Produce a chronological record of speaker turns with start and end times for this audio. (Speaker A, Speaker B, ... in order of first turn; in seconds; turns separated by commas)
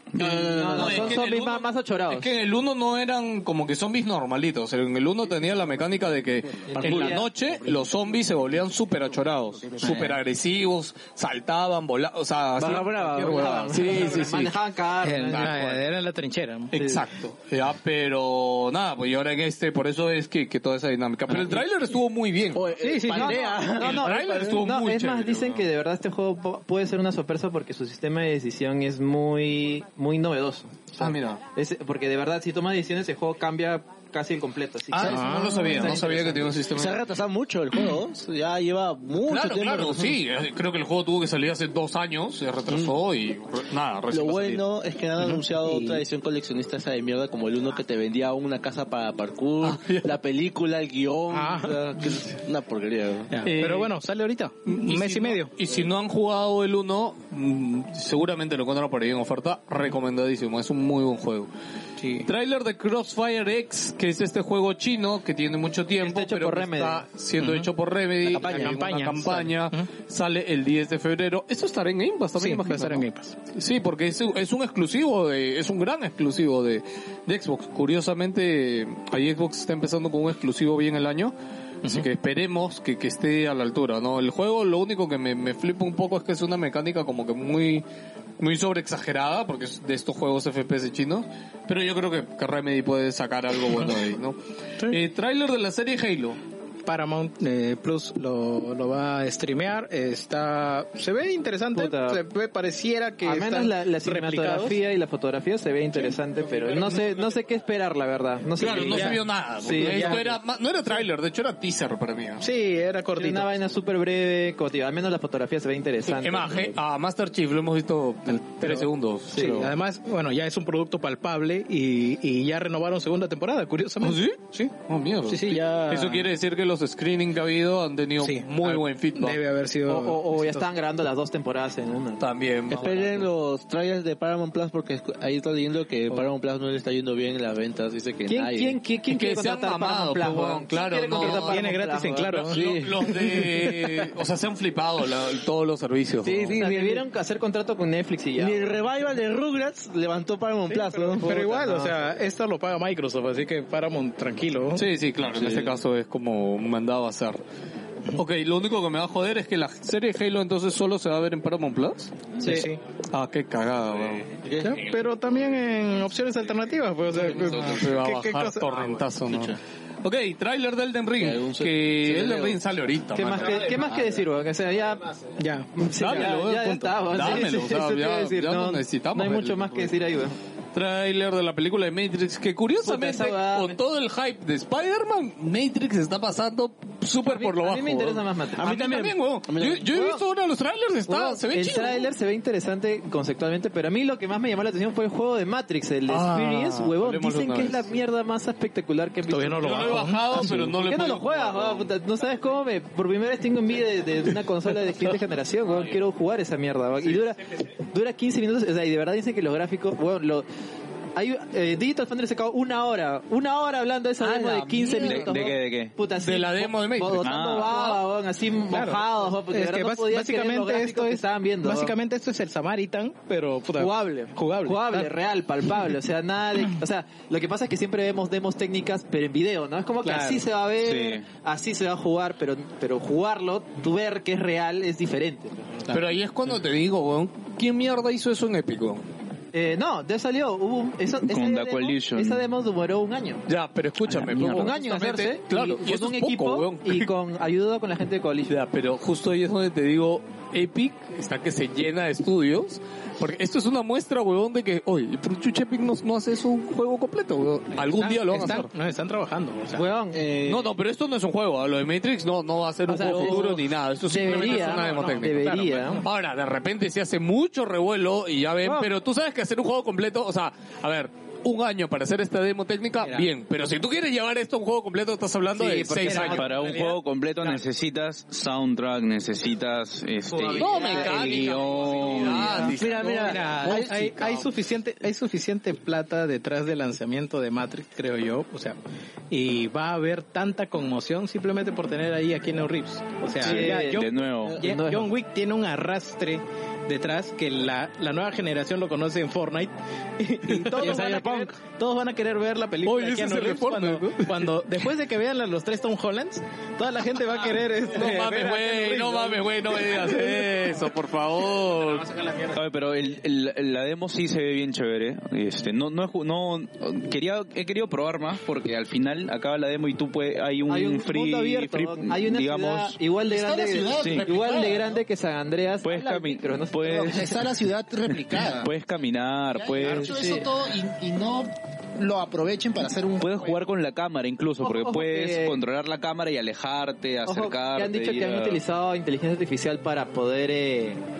Speaker A: 0.1-1.2, Speaker B: 0.2-14.5, Speaker C: 0.4-2.3, Speaker C: 6.7-7.3, Speaker A: 6.8-7.2, Speaker D: 9.8-10.2, Speaker A: 12.6-13.6, Speaker C: 12.6-15.8, Speaker D: 15.0-16.7, Speaker B: 16.7-22.6, Speaker C: 16.8-17.0, Speaker A: 21.3-21.6, Speaker A: 22.5-24.6, Speaker D: 22.8-23.5, Speaker C: 23.1-36.5, Speaker B: 23.7-25.6, Speaker B: 31.0-31.4, Speaker B: 34.9-37.0, Speaker D: 35.0-36.0, Speaker A: 36.7-40.1, Speaker B: 39.2-44.6, Speaker A: 44.1-53.4, Speaker D: 45.2-46.0, Speaker B: 49.6-50.1, Speaker D: 51.3-51.9, Speaker D: 53.3-55.5, Speaker B: 53.4-53.9, Speaker B: 54.7-61.5, Speaker D: 62.0-62.3, Speaker B: 62.2-81.3, Speaker C: 66.0-67.0, Speaker D: 67.4-67.7, Speaker D: 68.2-69.9, Speaker A: 68.4-68.7, Speaker D: 72.3-73.3, Speaker D: 81.8-82.1, Speaker B: 81.8-87.8, Speaker B: 88.4-96.4, Speaker D: 96.8-104.8, Speaker C: 101.7-102.2, Speaker C: 103.2-110.3, Speaker D: 106.6-107.0, Speaker B: 108.6-112.4, Speaker D: 108.8-110.3, Speaker D: 112.4-113.5, Speaker C: 113.2-116.8, Speaker B: 116.0-119.7, Speaker D: 118.3-124.7, Speaker C: 119.3-119.6, Speaker B: 124.0-129.4, Speaker D: 125.2-126.3, Speaker D: 128.2-130.7, Speaker C: 129.9-132.2, Speaker B: 132.2-133.3, Speaker A: 132.7-138.8, Speaker C: 138.3-142.4, Speaker B: 139.1-141.6, Speaker D: 141.2-144.1, Speaker B: 142.3-146.6, Speaker A: 142.5-142.9, Speaker A: 146.2-147.0, Speaker C: 146.5-148.6, Speaker A: 148.4-151.3, Speaker D: 150.7-154.8, Speaker C: 151.2-151.9, Speaker B: 154.7-157.4, Speaker A: 155.3-155.7, Speaker B: 158.1-164.3, Speaker D: 162.4-162.8, Speaker A: 164.4-164.8, Speaker D: 164.6-169.1, Speaker A: 167.2-167.8, Speaker B: 167.3-173.8, Speaker A: 169.3-169.6, Speaker A: 171.2-172.6, Speaker C: 173.1-180.4, Speaker A: 173.3-174.2, Speaker D: 175.4-176.9, Speaker B: 175.9-179.9, Speaker B: 180.7-192.1, Speaker C: 182.8-183.8, Speaker C: 187.2-188.6, Speaker A: 188.5-190.2, Speaker C: 191.1-210.4, Speaker B: 196.1-197.9, Speaker D: 199.2-200.7, Speaker B: 199.6-201.9, Speaker C: 211.1-221.9, Speaker B: 214.2-215.4, Speaker E: 215.0-215.9, Speaker B: 216.1-218.0, Speaker E: 217.2-217.7, Speaker D: 218.7-225.2, Speaker C: 223.8-235.8, Speaker D: 230.0-230.5, Speaker E: 230.8-231.2, Speaker B: 235.9-239.0, Speaker C: 239.5-243.4, Speaker E: 241.3-242.4, Speaker B: 243.5-247.1, Speaker E: 244.0-244.8, Speaker C: 244.5-248.5, Speaker B: 248.5-258.7, Speaker D: 258.0-259.8, Speaker C: 259.7-260.2, Speaker A: 260.1-260.7, Speaker B: 260.4-276.5, Speaker C: 262.9-266.0, Speaker D: 263.0-263.4, Speaker D: 264.2-266.1, Speaker C: 268.6-268.9, Speaker D: 273.0-273.3, Speaker C: 275.5-277.0, Speaker D: 276.0-276.8, Speaker E: 276.2-283.0, Speaker C: 280.4-281.9, Speaker B: 280.4-283.9, Speaker A: 282.5-284.4, Speaker D: 283.0-288.8, Speaker D: 289.3-310.4, Speaker C: 293.4-295.1, Speaker E: 293.4-294.6, Speaker B: 300.5-301.0, Speaker A: 300.8-301.4, Speaker B: 302.8-304.5, Speaker B: 307.9-312.4, Speaker E: 312.5-323.0, Speaker C: 320.7-327.2, Speaker F: 323.2-325.0, Speaker E: 324.0-324.3, Speaker E: 325.8-327.4, Speaker F: 326.8-328.7, Speaker E: 328.4-330.1, Speaker F: 329.5-333.6, Speaker C: 329.8-330.5, Speaker E: 333.2-338.6, Speaker C: 334.6-335.6, Speaker C: 337.2-341.0